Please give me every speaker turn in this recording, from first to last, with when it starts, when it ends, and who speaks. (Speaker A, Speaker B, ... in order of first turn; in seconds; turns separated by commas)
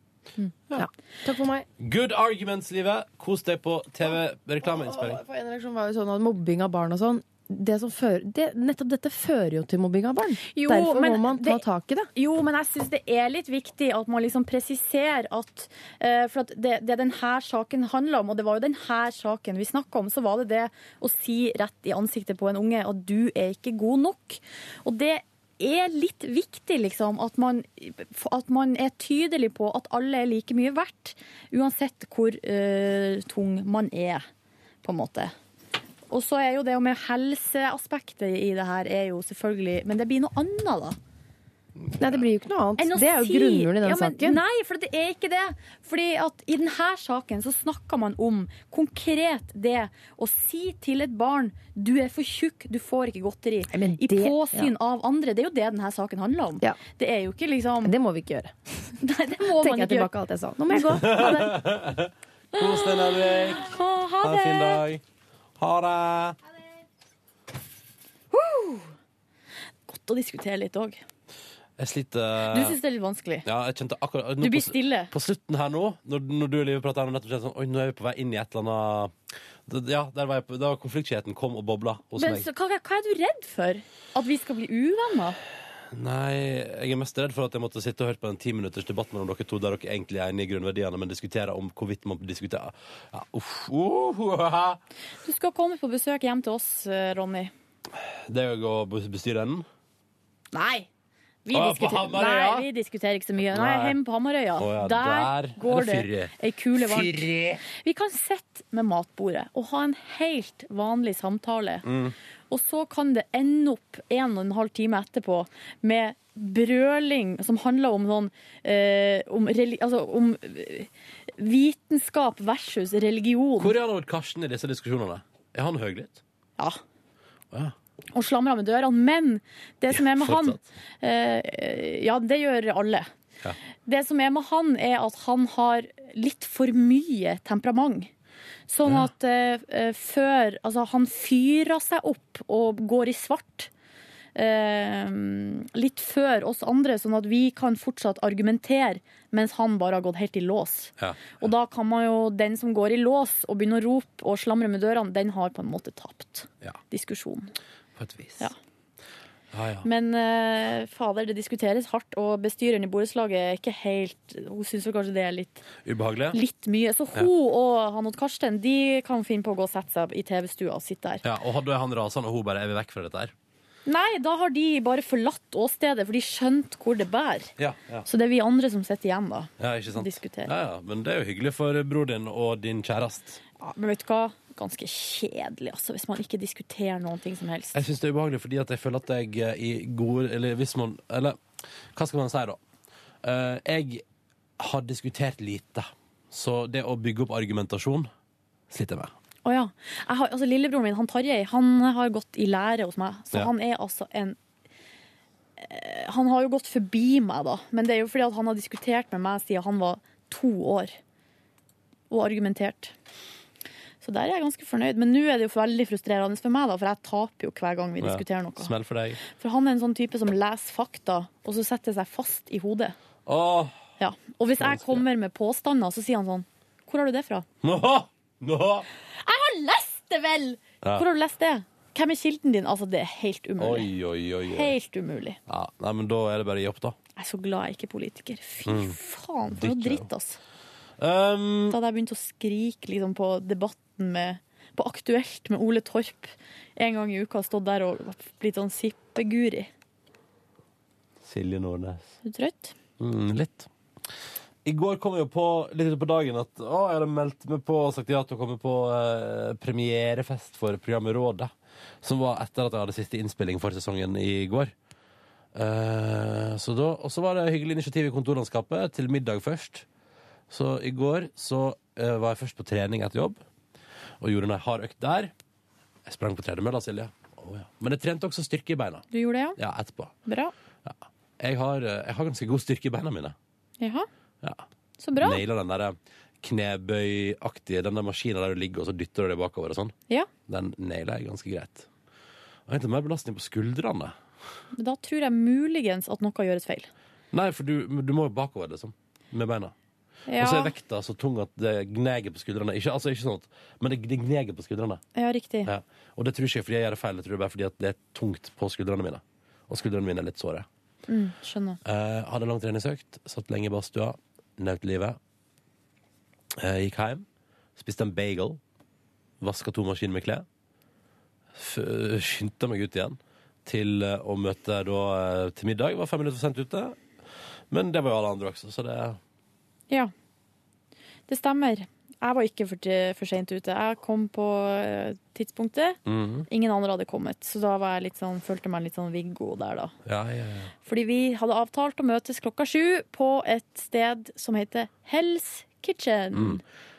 Speaker A: 0.8-1.7, Speaker B: 1.8-5.2, Speaker A: 4.6-12.1, Speaker C: 10.5-11.6, Speaker C: 12.2-34.3, Speaker C: 34.8-35.3, Speaker C: 36.1-41.0, Speaker A: 42.0-44.4, Speaker C: 42.8-57.9, Speaker A: 53.7-54.7, Speaker A: 57.9-58.9, Speaker C: 59.0-60.1, Speaker A: 59.5-61.5, Speaker C: 60.7-61.5, Speaker B: 61.0-65.0, Speaker C: 62.5-64.8, Speaker B: 65.6-66.4, Speaker C: 68.3-68.9, Speaker C: 69.9-71.0, Speaker B: 71.8-72.8, Speaker C: 72.5-73.5, Speaker B: 73.5-79.1, Speaker C: 74.4-75.1, Speaker B: 79.7-82.5, Speaker C: 82.2-85.4, Speaker B: 85.9-94.8, Speaker C: 95.2-97.5, Speaker B: 97.9-99.7, Speaker C: 100.5-100.9, Speaker C: 101.5-111.9, Speaker B: 101.5-102.7, Speaker B: 103.5-104.0, Speaker B: 104.6-107.6, Speaker B: 111.8-112.2, Speaker C: 112.5-123.7, Speaker B: 123.6-126.2, Speaker C: 128.1-133.1, Speaker B: 129.9-130.6, Speaker C: 133.9-138.1, Speaker C: 138.7-143.7, Speaker B: 138.9-139.1, Speaker C: 144.3-157.5, Speaker B: 151.0-151.5, Speaker B: 158.0-158.5, Speaker B: 159.5-159.9, Speaker C: 159.8-165.7, Speaker B: 165.9-166.4, Speaker C: 166.3-171.2, Speaker B: 171.2-173.3, Speaker C: 173.9-177.5, Speaker B: 177.6-178.1, Speaker C: 178.1-180.5, Speaker B: 179.6-183.4, Speaker C: 183.6-187.8, Speaker B: 187.7-191.4, Speaker B: 191.9-192.6, Speaker B: 193.2-194.1, Speaker B: 194.6-198.1, Speaker B: 198.7-199.1, Speaker C: 199.4-204.4, Speaker C: 205.6-211.0, Speaker C: 212.1-212.9, Speaker C: 214.0-218.7, Speaker B: 218.0-219.2, Speaker C: 219.2-223.0, Speaker B: 223.3-223.8, Speaker C: 224.0-227.5, Speaker B: 224.6-225.1, Speaker B: 227.6-228.9, Speaker C: 229.2-233.9, Speaker B: 233.6-234.7, Speaker C: 234.5-235.4, Speaker B: 235.5-237.0, Speaker C: 237.2-240.4, Speaker B: 238.7-239.0, Speaker B: 239.5-240.1, Speaker B: 241.0-241.8, Speaker C: 241.7-249.7, Speaker B: 251.2-252.2, Speaker C: 252.2-252.8, Speaker B: 253.0-253.7, Speaker B: 254.7-264.7, Speaker B: 265.5-269.9, Speaker B: 270.5-273.4, Speaker B: 274.2-275.3, Speaker B: 276.1-280.1, Speaker C: 279.1-279.6, Speaker C: 280.3-280.5, Speaker B: 280.9-283.4, Speaker C: 283.8-284.1, Speaker C: 285.0-285.4, Speaker B: 285.2-289.9, Speaker B: 290.5-291.9, Speaker B: 292.7-294.2, Speaker C: 294.8-296.9, Speaker B: 297.3-299.7, Speaker C: 300.3-300.7, Speaker B: 300.4-305.0, Speaker C: 305.2-305.7, Speaker B: 305.6-310.7, Speaker C: 311.1-311.8, Speaker B: 311.9-315.2, Speaker B: 316.6-317.3, Speaker B: 317.8-318.6, Speaker B: 319.4-320.5, Speaker B: 321.5-327.0, Speaker B: 327.7-329.2, Speaker C: 331.3-339.9, Speaker B: 336.1-336.5, Speaker B: 340.1-340.7, Speaker C: 340.9-346.6, Speaker B: 346.3-346.6